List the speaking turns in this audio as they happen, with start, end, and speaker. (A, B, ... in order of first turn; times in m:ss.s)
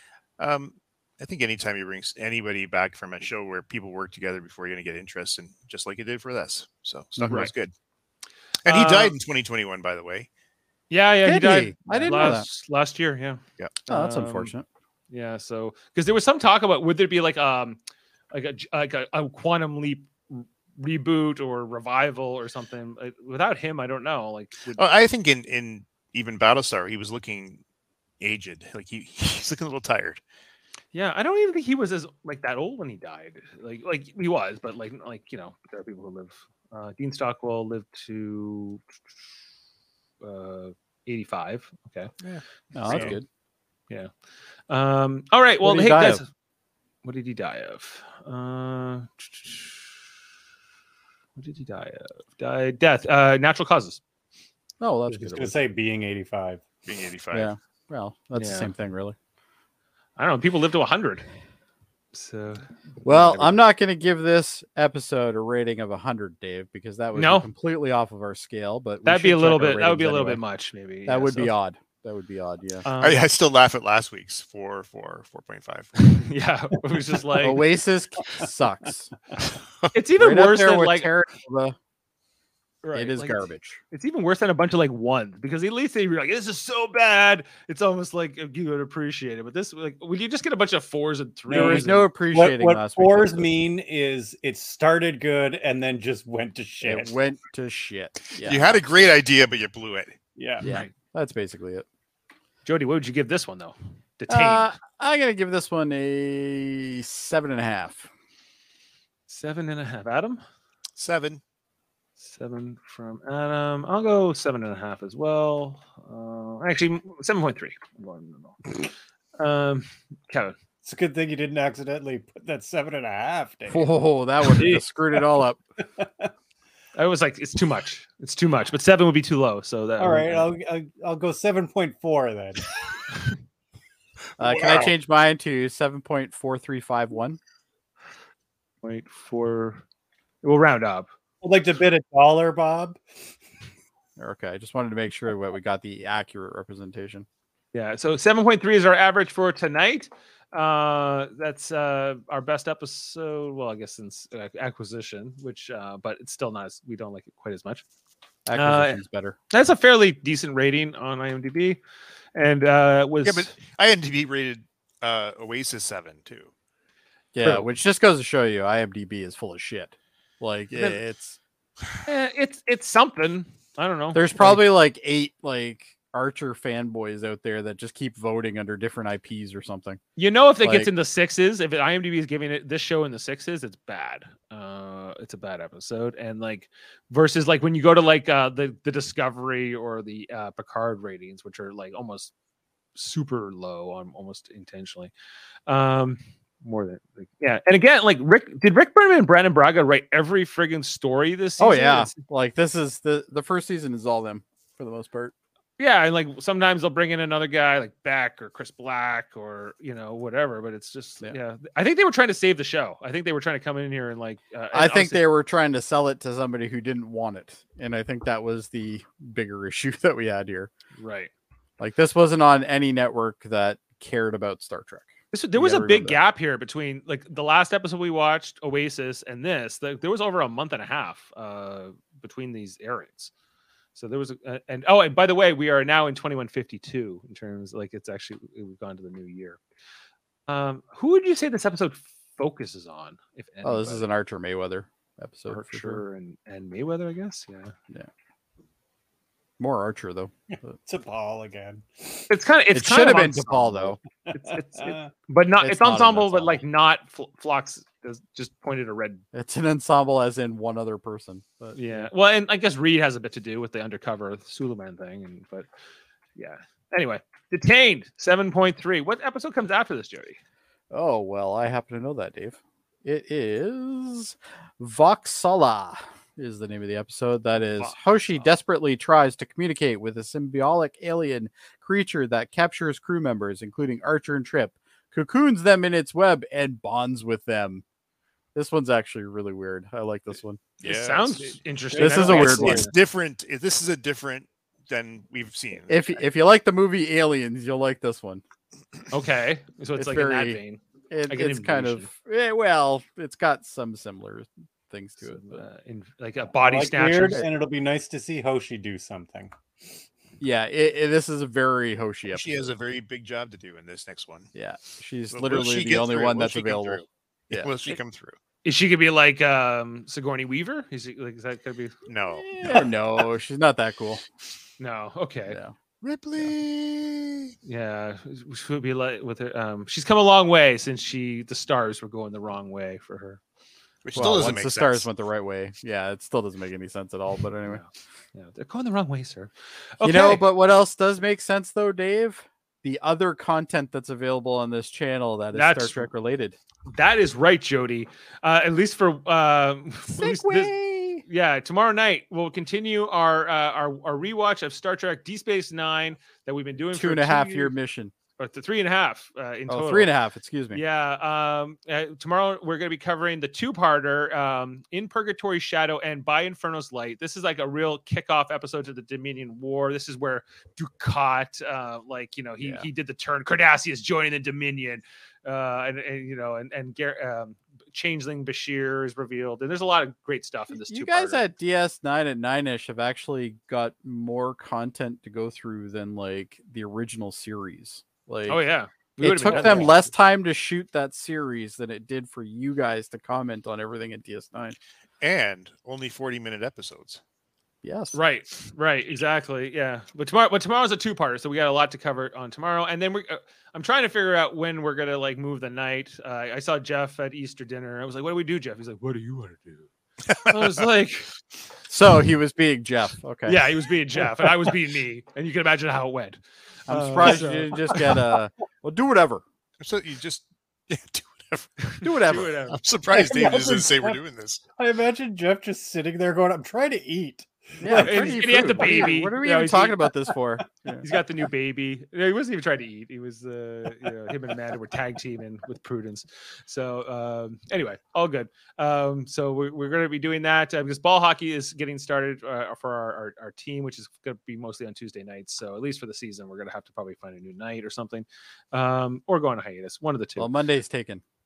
0:00.4-0:07.7 A
0:07.2-0:07.5 B
0:08.6-0:10.3 A
0:08.6-0:09.1 B
0:10.9-0:14.5 B
0:11.2-0:12.5 C
0:13.9-0:14.6 C
0:15.1-0:17.8 B
0:18.3-0:24.8 B
0:24.8-0:27.6 A
0:28.2-0:30.2 A
0:30.9-0:38.8 B
0:40.2-0:42.1 B
0:42.2-0:43.2 A
0:42.7-0:43.2 C
0:42.8-0:43.2 B
0:44.7-0:46.3 B
0:45.6-0:46.2 C
0:47.0-0:49.9 B
0:51.4-0:54.0 B
0:54.8-0:55.6 C
0:55.1-0:56.6 D
0:56.8-0:57.5 A
0:57.3-0:59.1 C
0:58.4-0:58.7 B
1:00.2-1:01.2 B
1:02.1-1:03.6 B
1:03.0-1:10.4 C
1:07.2-1:07.5 B
1:09.0-1:11.5 B
1:11.1-1:12.8 C
1:12.8-1:13.2 B
1:13.0-1:16.1 A
1:16.0-1:17.6 B
1:17.4-1:19.1 C
1:19.9-1:21.1 B
1:20.2-1:21.8 C
1:22.8-1:32.1 B
1:22.9-1:23.8 C
1:31.5-1:37.1 D
1:31.5-1:33.5 C
1:36.8-1:39.1 C
1:38.4-1:40.1 A
1:40.4-1:40.7 D
1:40.6-1:41.8 C
1:40.6-1:40.9 B
1:42.6-1:44.7 B
1:44.3-1:48.1 C
1:49.3-1:50.4 B
1:51.0-1:51.4 A
1:52.2-1:58.8 B
1:59.4-2:00.5 B
2:00.8-2:05.3 D
2:03.7-2:05.6 C
2:06.0-2:06.3 D
2:06.9-2:10.5 B
2:10.0-2:12.8 D
2:14.4-2:17.4 C
2:14.4-2:14.9 A
2:18.8-2:19.8 B
2:20.4-2:21.1 B
2:21.4-2:23.0 D
2:24.2-2:27.2 C
2:27.7-2:37.8 B
2:38.4-2:39.4 C
2:38.5-2:39.0 B
2:39.5-2:41.8 B
2:42.3-2:43.5 B
2:43.2-2:46.5 A
2:47.3-2:51.4 C
2:50.7-2:51.0 B
2:52.0-2:54.7 B
2:54.1-3:00.0 C
3:00.2-3:12.3 B
3:00.6-3:00.9 C
3:13.0-3:15.1 B
3:15.7-3:22.1 B
3:21.6-3:25.3 C
3:25.8-3:35.3 B
3:34.7-3:40.7 C
3:41.0-3:41.3 B
3:41.8-3:46.2 C
3:45.3-3:53.3 B
3:54.0-3:59.6 B
4:00.5-4:04.1 B
4:03.6-4:06.0 C
4:05.5-4:07.7 B
4:09.6-4:10.8 C
4:10.8-4:12.3 D
4:12.3-4:19.2 B
4:12.7-4:14.0 C
4:14.3-4:15.1 D
4:15.6-4:16.6 C
4:19.3-4:22.1 C
4:21.7-4:25.7 B
4:26.4-4:30.4 B
4:30.9-4:47.8 C
4:37.7-4:38.5 B
4:48.5-4:50.6 C
4:50.8-4:51.6 A
4:50.8-4:52.9 B
4:51.9-4:52.9 D
4:52.0-4:52.9 C
4:52.4-4:56.2 A
4:55.9-4:58.4 C
4:59.1-5:02.1 B
5:00.0-5:00.6 C
5:01.1-5:05.6 C
5:05.2-5:07.4 B
5:06.6-5:09.5 D
5:10.4-5:12.7 C
5:12.3-5:14.5 A
5:14.5-5:17.7 C
5:15.3-5:18.4 A
5:18.6-5:21.9 B
5:22.0-5:22.9 A
5:22.5-5:24.2 C
5:24.8-5:25.6 B
5:25.5-5:25.7 C
5:26.0-5:27.5 A
5:27.6-5:33.4 B
5:34.0-5:35.1 A
5:34.1-5:37.8 C
5:37.6-5:40.4 B
5:40.0-5:46.6 C
5:45.5-5:46.1 B
5:46.9-5:57.7 B
5:50.1-5:51.2 C
5:56.9-5:58.1 C
5:58.4-6:00.1 B
5:59.7-6:00.8 C
6:00.7-6:21.5 B
6:12.6-6:12.9 C
6:20.7-6:28.6 C
6:28.5-6:30.0 B
6:29.2-6:34.8 C
6:35.2-6:37.2 A
6:37.8-6:38.2 C
6:38.1-6:49.9 B
6:50.4-6:51.3 B
6:51.9-6:53.7 C
6:53.4-6:58.1 B
6:56.9-6:59.4 C
6:59.8-7:04.6 A
7:02.0-7:02.5 C
7:02.2-7:02.8 B
7:03.1-7:04.2 D
7:04.8-7:09.1 D
7:07.8-7:11.0 C
7:07.9-7:10.1 B
7:11.0-7:30.5 B
7:30.4-7:31.2 C